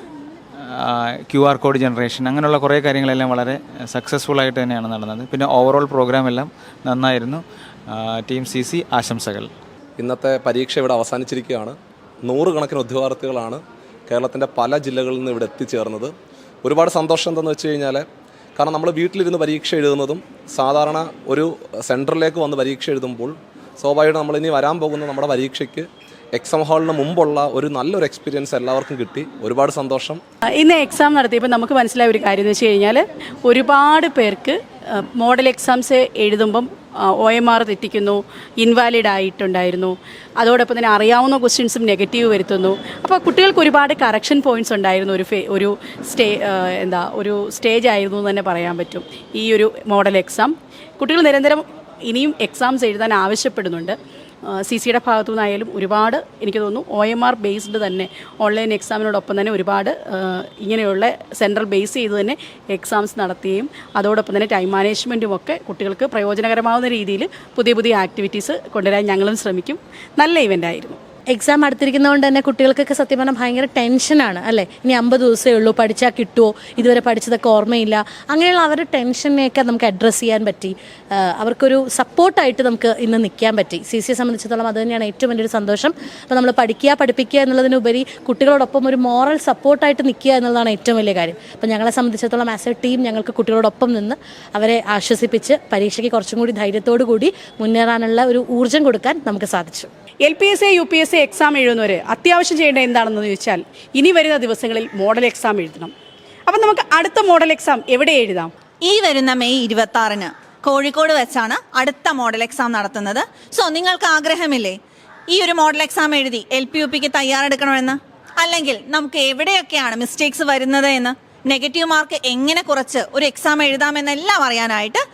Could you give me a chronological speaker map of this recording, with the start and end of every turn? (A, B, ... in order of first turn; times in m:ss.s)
0:00.6-0:09.5 A
0:10.0-0:16.1 B
0:16.6-0:18.0 B
0:18.6-0:30.2 B
0:30.6-0:54.0 C
0:54.5-1:11.0 C
1:11.3-1:39.9 D
1:40.2-1:45.9 C
1:46.5-1:48.5 C
1:48.9-1:54.8 E
1:55.3-2:05.0 E